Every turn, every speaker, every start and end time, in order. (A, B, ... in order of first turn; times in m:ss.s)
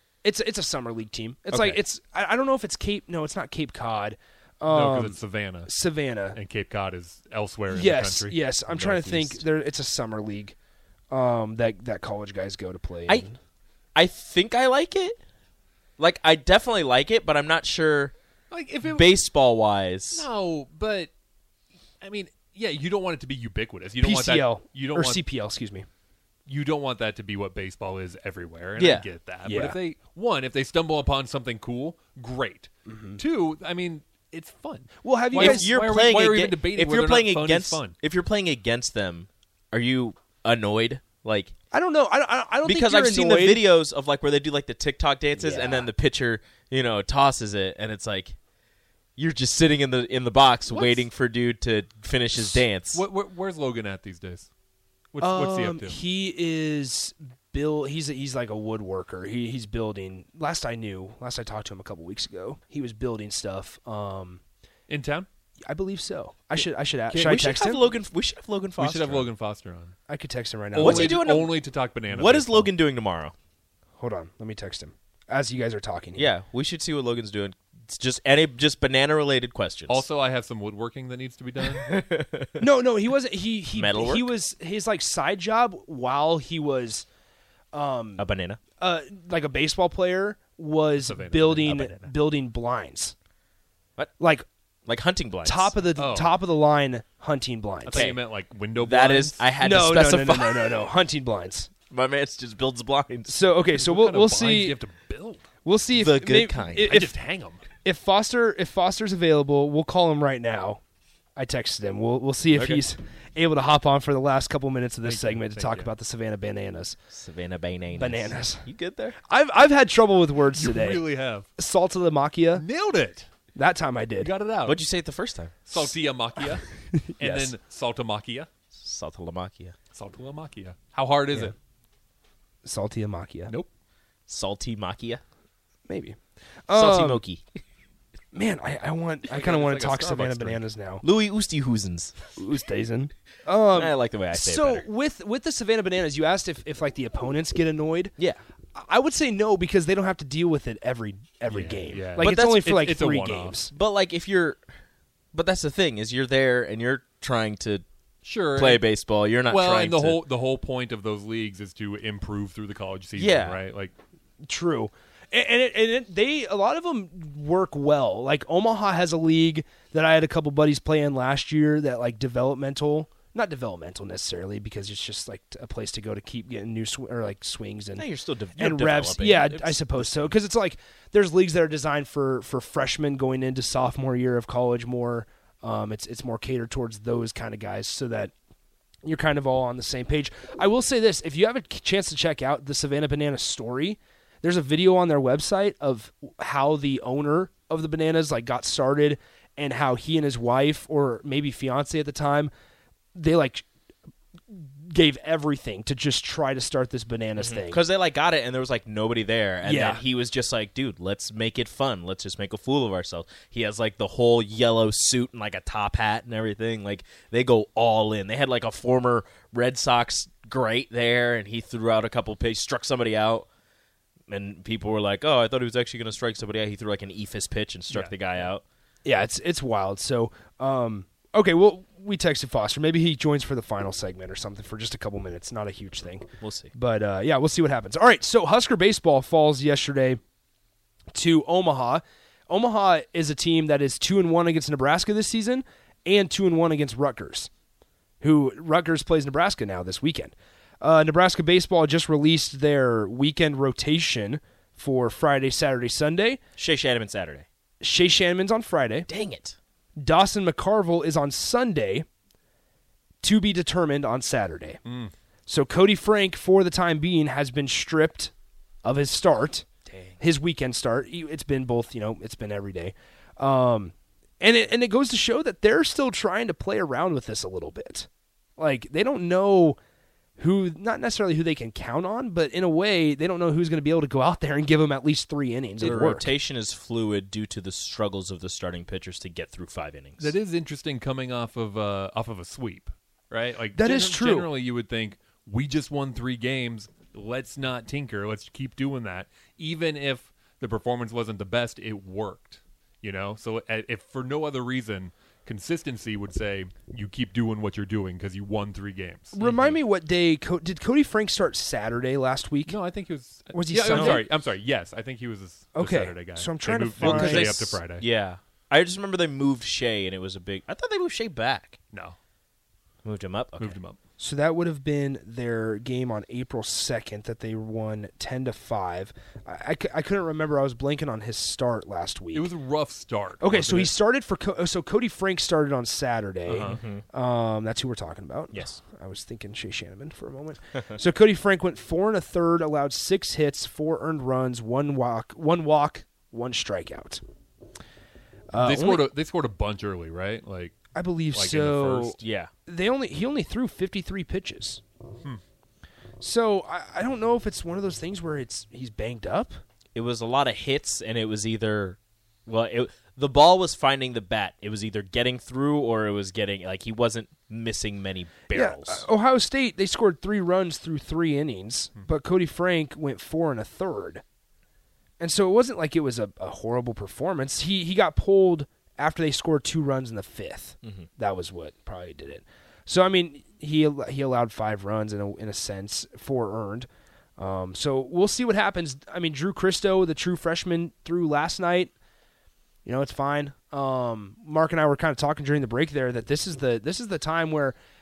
0:00.2-0:06.4 A
0:01.5-0:01.8 B
0:04.7-0:05.7 C
0:06.3-0:09.4 C
0:07.7-0:10.6 A
0:11.1-0:13.4 A
0:14.0-0:15.2 B
0:16.0-0:18.1 B
0:18.5-0:19.2 C
0:18.8-0:20.2 B
0:20.1-0:21.1 C
0:22.0-0:25.2 C
0:24.0-0:25.9 A
0:26.5-0:38.0 C
0:28.8-0:29.1 B
0:29.4-0:29.8 A
0:32.9-0:33.2 A
0:35.0-0:35.7 A
0:35.4-0:41.5 B
0:41.7-0:43.7 A
0:42.6-0:48.4 B
0:45.4-0:45.9 A
0:49.2-0:53.0 B
0:50.7-0:51.1 C
0:52.5-0:54.5 C
0:55.1-0:56.0 C
0:55.2-1:04.4 A
1:04.9-1:05.3 C
1:05.7-1:07.9 A
1:07.1-1:07.4 C
1:07.2-1:09.3 B
1:08.8-1:10.0 C
1:10.1-1:11.3 A
1:10.7-1:12.7 C
1:10.8-1:11.5 B
1:12.1-1:13.3 B
1:14.0-1:16.3 A
1:16.2-1:20.0 B
1:19.9-1:22.0 C
1:21.7-1:22.6 B
1:22.6-1:27.1 A
1:23.7-1:24.3 B
1:27.7-1:28.2 A
1:28.2-1:28.6 B
1:28.8-1:33.1 A
1:31.0-1:32.1 C
1:34.2-1:34.5 A
1:34.8-1:35.8 B
1:35.4-1:38.1 A
1:36.0-1:36.3 C
1:37.8-1:39.4 C
1:37.9-1:38.2 B
1:38.8-1:40.8 B
1:39.6-1:41.7 A
1:41.9-1:43.3 B
1:43.3-1:44.8 A
1:43.7-1:45.4 C
1:45.6-1:47.1 A
1:45.9-1:46.9 B
1:46.8-1:47.6 C
1:47.8-1:50.8 A
1:51.4-1:57.0 A
1:52.5-1:52.8 C
1:55.0-1:55.9 C
1:57.1-1:59.2 B
1:57.9-1:58.7 A
1:59.2-2:01.0 A
2:00.6-2:01.5 C
2:01.6-2:02.6 A
2:02.6-2:03.3 C
2:03.6-2:04.3 A
2:04.2-2:04.8 C
2:04.6-2:05.5 B
2:05.7-2:06.7 C
2:06.9-2:07.5 A
2:07.2-2:08.5 C
2:08.8-2:09.8 B
2:09.9-2:11.5 C
2:12.6-2:13.5 A
2:14.3-2:15.2 B
2:15.9-2:17.2 A
2:16.7-2:17.4 B
2:18.3-2:21.0 A
2:19.3-2:20.6 C
2:21.0-2:22.2 B
2:22.3-2:28.2 A
2:23.7-2:24.8 B
2:28.8-2:33.7 A
2:31.5-2:33.6 C
2:32.2-2:32.6 B
2:33.7-2:34.6 B
2:35.3-2:37.8 B
2:38.2-2:38.9 C
2:38.5-2:40.2 B
2:39.4-2:43.9 C
2:43.2-2:43.6 B
2:44.4-2:58.1 A
2:58.0-3:00.4 B
2:58.6-3:08.3 A
3:09.0-3:22.5 A
3:23.2-3:23.7 A
3:24.5-3:27.8 A
3:27.4-3:43.5 B
3:29.6-3:30.0 A
3:44.3-3:48.6 B
3:47.9-3:48.5 C
3:49.0-4:00.2 A
3:56.4-3:56.7 B
4:01.1-4:07.5 A
4:08.2-4:16.4 A
4:16.6-4:17.5 B
4:17.8-4:19.1 A
4:19.1-4:19.6 B
4:20.0-4:22.0 A
4:23.2-4:24.8 A
4:24.9-4:25.1 C
4:25.5-4:28.3 A
4:28.8-4:29.7 A
4:30.2-4:39.8 A
4:40.4-4:46.3 A
4:45.8-4:50.3 B
4:50.2-5:09.8 C
4:53.8-4:54.5 A
5:09.3-5:12.8 A
5:12.7-5:18.0 C
5:13.5-5:14.2 A
5:13.9-5:14.2 B
5:15.8-5:17.8 A
5:17.0-5:21.8 B
5:23.0-5:23.8 B
5:23.6-5:24.0 C
5:24.2-5:32.5 A
5:32.3-5:34.0 C
5:33.4-5:47.2 A
5:36.5-5:36.8 C
5:36.7-5:37.0 B
5:38.5-5:38.8 B
5:48.5-5:49.1 A
5:48.6-5:50.8 C
5:50.9-5:54.8 A
5:51.3-5:52.2 C
5:52.2-5:52.5 B
5:56.2-5:59.6 A
5:59.9-6:09.1 B
6:08.5-6:14.2 A
6:15.2-6:26.9 A
6:27.4-6:31.9 A
6:32.8-6:37.8 A